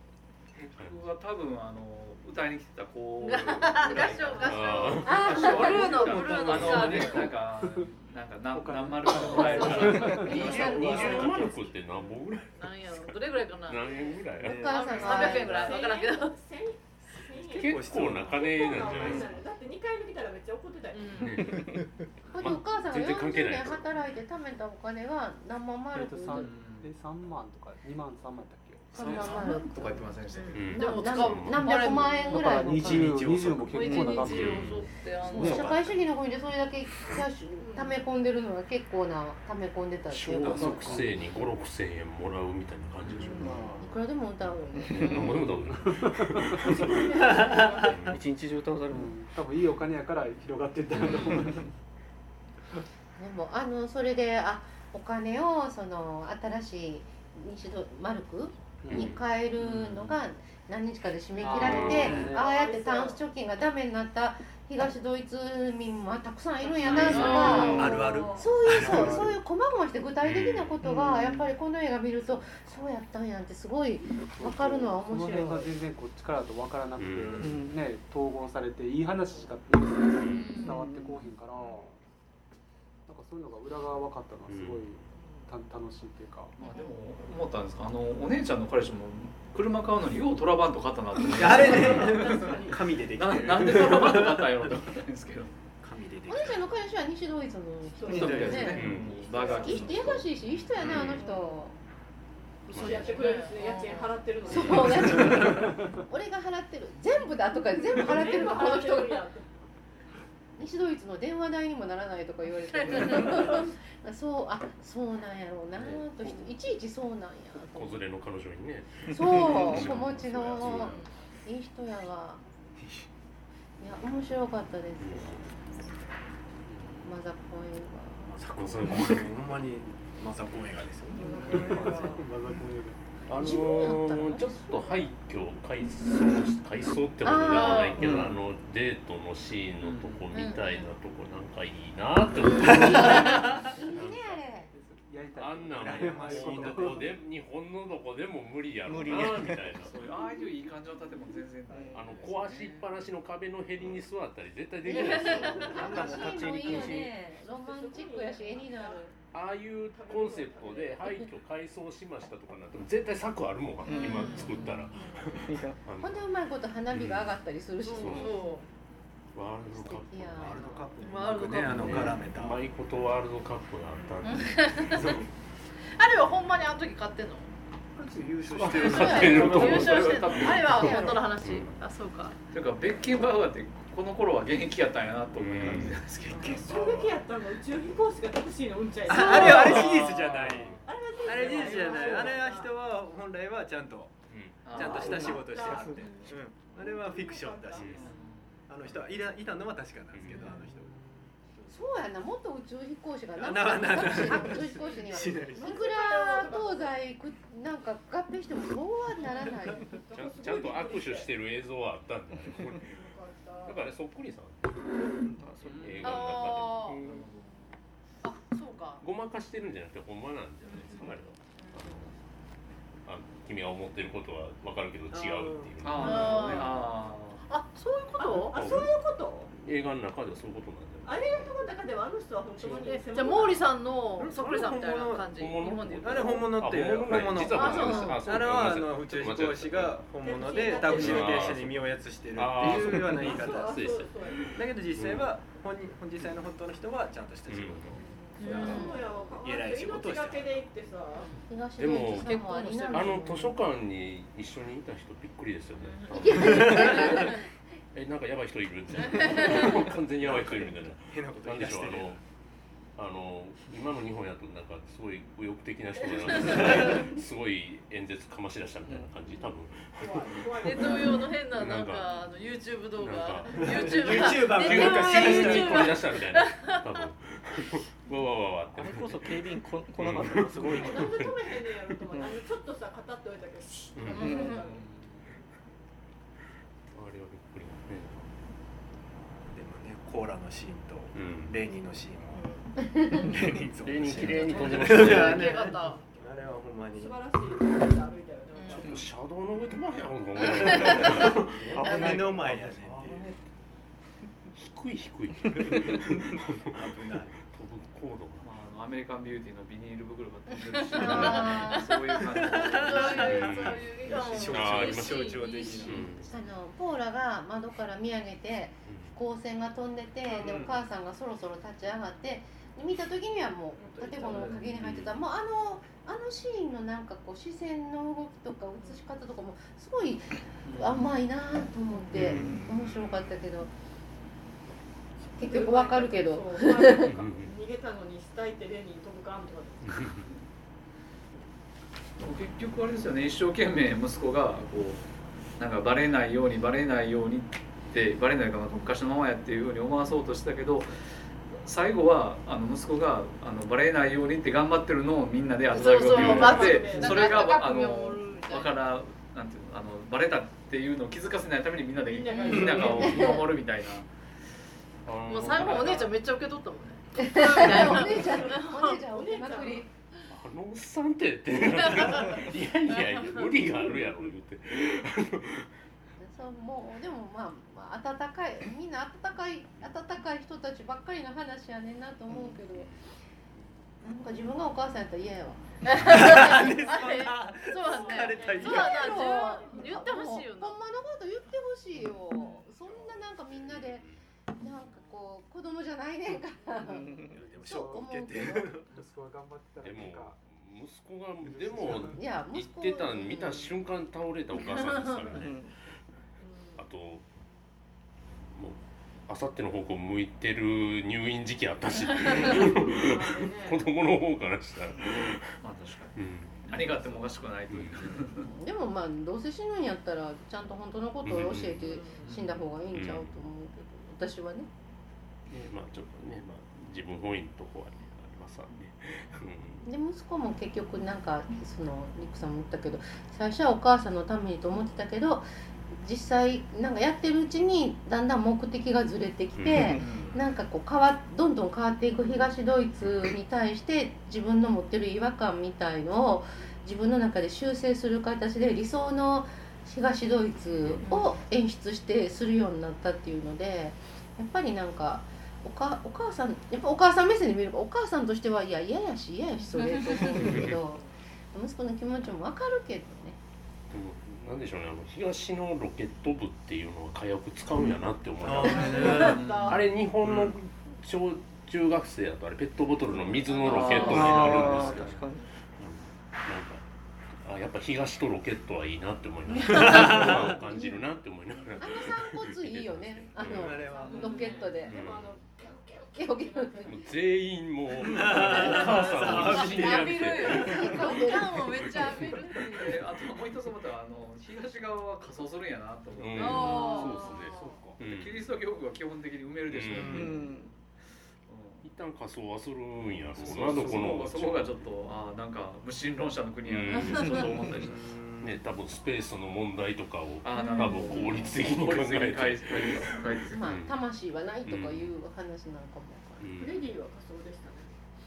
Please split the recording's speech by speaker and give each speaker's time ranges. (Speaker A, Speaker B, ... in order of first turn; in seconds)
Speaker A: 0.6-10.7, 26.3-26.9, 28.9-30.9, 61.4-62.4, 66.8-67.9, 81.5-81.9, 86.6-92.2, 93.2-95.5, 98.1-100.3, 139.8-140.3, 149.9-152.7, 179.6-180.8, 182.5-186.6, 189.3-191.9, 194.7-195.4, 197.9-198.6, 215.6-216.2, 217.0-217.7, 225.8-227.4, 284.5-284.9, 308.4-313.4, 330.7-331.1, 342.2-345.1, 345.6-350.9, 351.6-364.1, 415.6-418.5, 422.2-422.6, 469.1-469.8, 473.6-475.2, 484.2-484.9, 492.5-497.1, 498.0-500.8, 501.5-501.9, 503.4-508.1, 510.4-513.6
Speaker B: 0.8-1.1, 3.3-5.6, 6.5-7.0, 9.5-14.7, 17.6-19.4, 21.2-21.9, 22.4-23.9, 30.5-31.8, 34.2-34.9, 40.1-43.6, 44.4-48.2, 58.9-59.2, 61.5-62.3, 70.2-70.8, 77.0-77.6, 80.2-80.6, 84.5-85.0, 91.7-92.2, 98.7-99.2, 100.7-101.3, 102.7-103.1, 104.5-105.1, 115.7-116.6, 117.5-121.0, 125.0-125.5, 128.6-129.4, 133.3-144.3, 145.4-150.0, 151.9-157.1, 159.3-166.3, 166.9-167.4, 167.9-168.3, 169.3-170.6, 171.7-175.1, 178.5-181.8, 185.4-186.1, 194.3-194.7, 197.8-198.1, 200.1-200.7, 210.1-213.0, 213.7-214.8, 215.8-217.3, 219.0-222.2, 223.1-226.9, 228.5-228.9, 229.5-231.2, 235.3-240.1, 240.7-245.3, 247.5-248.0, 251.8-257.4, 257.9-262.2, 263.0-272.3, 272.9-279.4, 280.0-281.3, 284.0-284.3, 286.9-288.3, 291.1-291.6, 293.8-295.7, 298.7-303.4, 304.6-306.8, 307.4-308.5, 310.9-311.6, 313.1-316.3, 318.9-319.1, 324.8-325.1, 332.1-333.1, 337.0-337.6, 339.8-340.3, 356.1-356.6, 365.1-366.1, 370.3-375.7, 382.7-383.0, 392.8-394.2, 399.8-405.6, 406.8-407.2, 408.5-415.6, 416.1-416.9, 417.7-418.2, 421.2-421.9, 422.9-423.4, 425.5-429.9, 439.6-440.0, 450.8-451.1, 460.3-460.8, 463.9-475.2, 475.8-476.8, 477.4-483.9, 484.8-485.5, 486.9-492.5, 496.2-498.5, 499.7-500.3, 501.8-504.9, 506.6-513.9, 514.6-515.2, 516.4-516.9
Speaker C: 3.2-7.3, 9.4-10.2, 12.6-14.1, 14.9-16.4, 20.9-21.6, 28.9-29.5, 30.3-32.8, 33.7-35.9, 66.9-68.0, 80.4-80.8, 86.6-86.9, 101.1-101.6, 102.8-104.2, 112.7-113.4, 137.5-138.1, 140.3-140.9, 142.6-143.2, 154.9-155.4, 163.8-165.0, 167.8-168.7, 171.0-172.2, 174.2-175.2, 176.0-177.5, 178.7-182.4, 216.0-217.0, 218.2-219.1, 220.7-221.9, 226.0-226.8, 227.5-228.7, 232.7-236.6, 237.5-238.3, 248.4-249.1, 252.1-253.4, 255.8-257.3, 259.1-259.7, 266.1-266.8, 270.6-277.1, 284.1-284.7, 294.2-296.0, 298.6-298.9, 300.7-301.1, 310.7-316.1, 355.7-358.8, 365.3-369.0, 371.6-373.7, 385.9-390.8, 451.0-451.4, 460.0-460.3, 468.9-469.7, 489.3-493.0, 496.4-497.9, 510.6-511.1
Speaker D: 3.9-5.4, 14.0-21.4, 37.6-38.0, 46.8-48.0, 62.2-63.2, 75.3-75.6, 79.3-79.5, 85.1-85.5, 91.5-93.0, 98.0-100.2, 102.7-105.5, 107.7-109.5, 113.2-113.7, 131.2-132.3, 155.4-156.6, 157.4-161.3, 186.3-190.1, 190.8-192.7, 194.8-198.1, 204.1-207.0, 209.2-211.3, 212.7-213.8, 225.1-225.7, 226.2-226.6, 228.2-229.5, 231.0-233.7, 240.2-241.6, 243.1-244.6, 247.9-251.3, 266.0-267.1, 270.0-271.4, 280.7-285.0, 296.9-299.1, 323.8-324.8, 335.4-340.1, 356.1-357.4, 362.0-363.4, 367.6-369.9, 387.7-390.1, 406.4-406.8, 412.3-413.9, 421.8-422.3, 460.8-461.1, 468.7-469.8, 473.3-473.9, 483.9-487.4, 488.6-489.3, 516.6-517.9
Speaker E: 5.0-6.1, 9.3-11.5, 14.4-15.7, 22.3-26.5, 28.9-30.1, 30.7-33.1, 35.3-41.0, 43.2-45.4, 53.2-75.7, 96.3-98.9, 99.5-101.8, 104.5-109.3, 110.6-118.0, 119.1-122.4, 123.8-125.4, 127.0-128.3, 133.4-134.9, 137.2-138.1, 142.6-144.7, 154.8-159.1, 166.0-168.5, 169.7-171.1, 180.7-181.2, 201.7-210.0, 248.5-249.1, 251.4-253.6, 256.1-257.4, 292.9-293.3, 310.9-312.0, 316.2-333.7, 335.4-337.1, 362.3-363.6, 367.1-369.9, 376.2-382.9, 384.0-386.6, 388.6-394.1, 394.6-398.8, 402.1-403.8, 418.5-424.7, 429.9-463.4, 479.9-481.0, 481.8-485.1, 486.1-487.0, 490.4-491.9, 513.5-516.6
Speaker F: 5.5-7.2, 14.4-15.8, 17.2-19.2, 32.8-34.7, 35.3-36.0, 47.2-47.9, 67.3-69.3, 91.2-94.7, 95.8-96.7, 98.1-99.1, 104.7-105.7, 119.5-121.0, 128.2-132.2, 142.6-143.6, 145.8-147.2, 170.4-172.7, 174.8-175.3, 177.9-180.7, 185.7-187.2, 189.1-197.9, 198.7-202.0, 203.4-205.9, 234.2-235.3, 236.0-243.9, 244.5-250.7, 256.5-257.0, 259.4-262.2, 273.5-276.1, 289.5-297.2, 300.4-303.3, 305.6-307.4, 312.3-316.2, 320.3-320.7, 362.5-362.9, 386.0-389.1, 397.3-399.0, 401.6-402.1, 440.0-440.4, 468.4-469.5, 470.2-470.5, 474.2-474.5, 479.6-480.6, 483.4-484.6, 487.9-490.8, 496.4-498.0, 499.9-500.3, 503.4-504.2, 507.7-508.7
Speaker G: 6.4-7.9, 8.5-11.7, 25.9-29.1, 32.2-34.9, 40.5-41.3, 43.3-43.9, 45.3-47.0, 48.9-51.7, 58.8-59.2, 61.5-62.5, 68.7-69.4, 74.3-82.0, 83.1-86.6, 105.6-105.9, 131.6-133.0, 143.5-147.2, 397.4-398.1, 398.9-400.4, 401.4-402.2
Speaker H: 19.0-19.2, 43.4-43.8, 44.8-45.3, 48.1-49.1, 67.2-68.2, 70.8-71.5, 77.4-77.8, 80.7-81.1, 119.2-119.5, 138.0-138.3, 148.9-149.7, 151.7-152.8, 155.5-157.1, 163.9-164.7, 165.3-165.8, 171.8-172.1, 195.0-196.3, 215.3-216.0, 268.9-269.2, 278.7-281.2, 282.1-282.4, 284.1-284.5, 396.8-397.4, 405.3-405.7, 439.8-440.1, 473.8-475.5, 499.9-500.7